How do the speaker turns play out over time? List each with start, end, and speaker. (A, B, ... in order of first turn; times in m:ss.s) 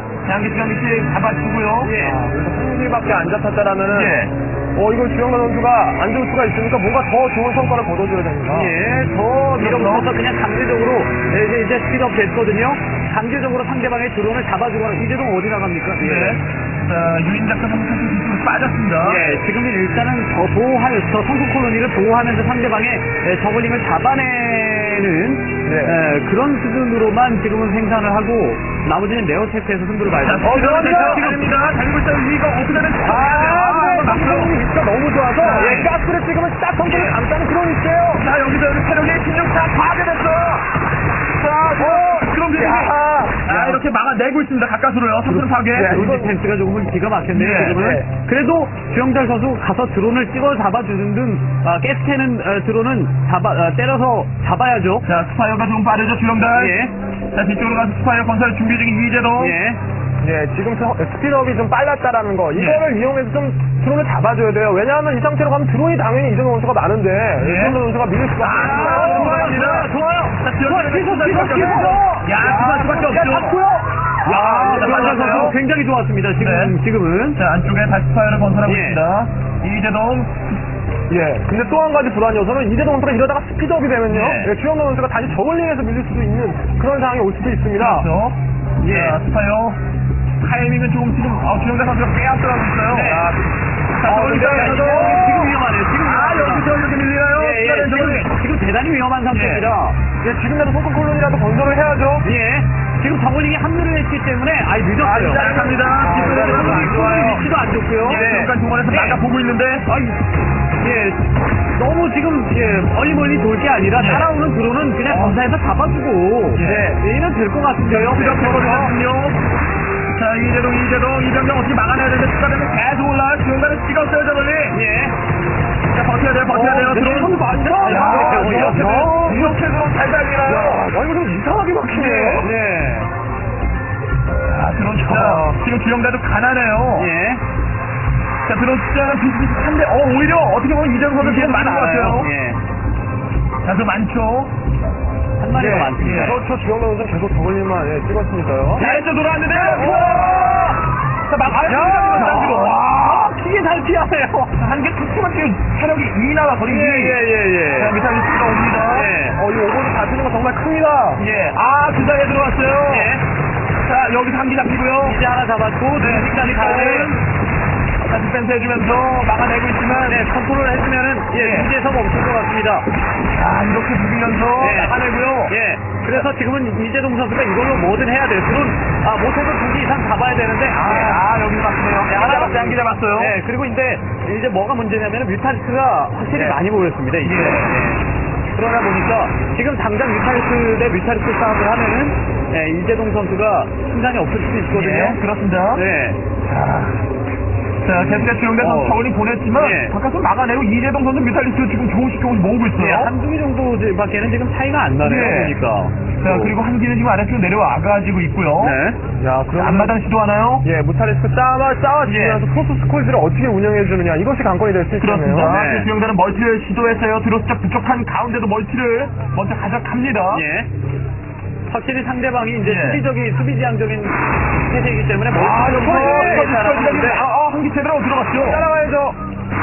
0:00.2-0:01.9 A
0:01.8-0:02.3 B
0:02.0-0:08.7 C
0:03.9-0:04.3 A
0:08.5-0:16.4 B
0:09.6-0:10.2 A
0:16.0-0:19.3 A
0:19.0-0:31.5 B
0:25.6-0:26.0 C
0:30.2-0:34.6 A
0:30.4-0:31.3 C
0:33.0-0:38.2 C
0:35.4-0:35.9 A
0:35.6-0:35.8 B
0:36.8-0:37.2 A
0:38.1-0:40.7 A
0:41.4-0:46.0 A
0:41.8-0:43.8 C
0:45.3-0:55.1 B
0:45.7-0:46.4 C
0:47.3-0:48.0 A
0:47.8-0:48.1 C
0:55.0-0:56.8 A
0:56.5-0:56.9 B
0:57.3-0:59.6 A
0:59.4-0:59.8 B
1:00.2-1:09.9 C
1:02.5-1:02.9 A
1:07.4-1:07.8 A
1:08.4-1:13.6 A
1:08.6-1:17.4 B
1:11.5-1:12.1 C
1:12.8-1:13.5 C
1:14.2-1:15.6 A
1:14.3-1:15.5 C
1:16.4-1:16.8 A
1:17.4-1:20.6 A
1:18.6-1:19.0 B
1:21.1-1:28.1 C
1:24.1-1:24.5 A
1:27.8-1:29.8 A
1:28.8-1:29.2 B
1:30.4-1:33.4 A
1:32.9-1:33.3 B
1:34.0-1:38.3 A
1:34.1-1:35.5 C
1:34.2-1:36.7 B
1:37.3-1:40.0 B
1:39.3-1:39.7 A
1:40.2-1:42.3 C
1:42.2-1:49.2 B
1:45.0-1:49.9 A
1:45.4-1:47.0 C
1:50.8-1:51.2 B
1:51.8-1:58.9 B
1:54.0-1:54.3 A
1:55.0-1:55.5 A
1:56.6-1:57.0 A
1:57.9-1:59.4 A
2:00.2-2:04.8 A
2:04.7-2:05.2 B
2:05.9-2:10.9 A
2:06.5-2:09.5 B
2:07.2-2:09.6 C
2:10.4-2:12.5 C
2:11.9-2:13.1 B
2:11.9-2:12.5 A
2:14.5-2:17.1 A
2:15.1-2:15.6 B
2:17.0-2:17.4 B
2:18.4-2:22.3 A
2:21.2-2:22.6 B
2:23.6-2:24.5 A
2:25.4-2:26.4 B
2:25.5-2:28.9 C
2:25.7-2:26.4 A
2:28.8-2:33.4 A
2:28.8-2:30.6 B
2:29.6-2:30.7 C
2:31.5-2:34.5 B
2:31.8-2:32.6 C
2:34.5-2:37.2 A
2:36.6-2:38.0 B
2:37.7-2:39.1 A
2:38.8-2:39.4 B
2:39.2-2:41.2 C
2:41.2-2:43.2 A
2:42.9-2:43.2 B
2:43.8-2:45.2 A
2:45.0-2:47.2 B
2:46.0-2:47.2 A
2:48.0-2:50.2 A
2:49.9-2:52.9 B
2:51.3-2:51.7 A
2:53.3-2:55.5 A
2:54.6-3:01.2 B
3:00.7-3:03.4 A
3:02.1-3:15.2 B
3:07.2-3:07.7 A
3:14.7-3:15.8 A
3:15.7-3:16.2 B
3:16.4-3:17.0 A
3:17.8-3:23.1 A
3:18.0-3:19.9 B
3:22.8-3:26.6 B
3:25.0-3:25.6 A
3:26.2-3:28.8 A
3:28.6-3:29.0 B
3:29.2-3:30.0 C
3:29.5-3:30.7 A
3:30.6-3:35.6 C
3:32.1-3:32.4 A
3:34.9-3:40.4 A
3:35.4-3:35.9 B
3:40.3-3:40.7 B
3:41.7-3:47.2 B
3:42.6-3:43.0 A
3:45.3-3:48.6 A
3:45.6-3:46.4 C
3:48.4-3:49.2 C